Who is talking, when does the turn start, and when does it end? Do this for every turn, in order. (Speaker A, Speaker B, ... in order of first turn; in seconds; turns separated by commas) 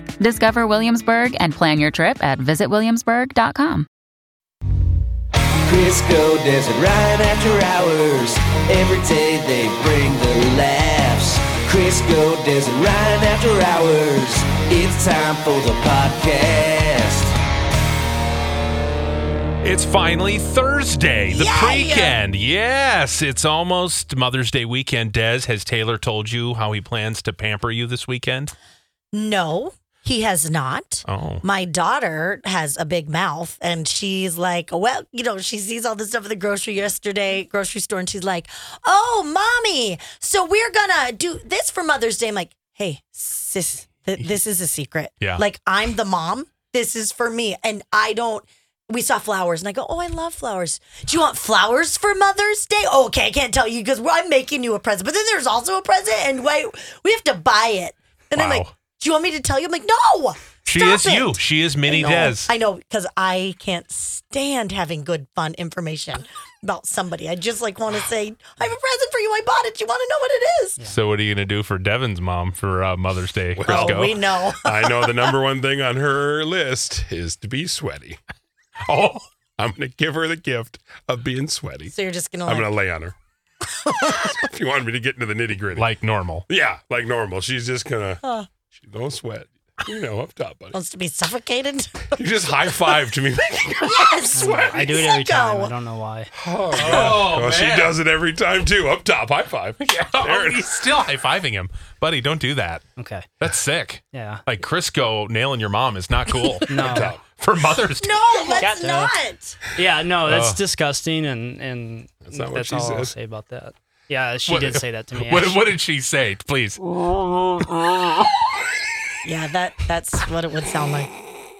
Speaker A: 0.2-3.9, Speaker B: 5.6-17.3, Speaker C: 19.6-28.6, Speaker D: 21.3-22.2, Speaker D: 29.1-70.8, Speaker C: 31.1-31.4, Speaker C: 58.4-58.7, Speaker C: 60.7-62.5, Speaker C: 70.8-74.2, Speaker E: 73.6-74.1, Speaker D: 73.7-75.4, Speaker E: 74.6-78.2, Speaker C: 78.9-79.3, Speaker E: 79.6-81.9, Speaker D: 81.9-82.8, Speaker E: 82.5-83.2, Speaker D: 83.7-84.3, Speaker E: 84.4-85.9, Speaker C: 85.8-86.5, Speaker E: 86.5-90.8, Speaker D: 88.2-88.5, Speaker D: 90.7-92.2, Speaker E: 92.2-94.7, Speaker D: 93.7-95.7, Speaker F: 94.3-96.3, Speaker E: 96.3-100.7, Speaker C: 96.7-98.0, Speaker C: 99.8-102.8, Speaker F: 103.0-103.3, Speaker C: 103.4-108.6, Speaker F: 104.1-104.4, Speaker F: 106.7-107.1, Speaker E: 106.8-107.2, Speaker D: 108.0-109.6, Speaker F: 108.6-109.1, Speaker F: 109.7-115.7, Speaker C: 110.2-110.6, Speaker E: 112.3-113.1, Speaker C: 114.5-116.8, Speaker D: 119.2-121.2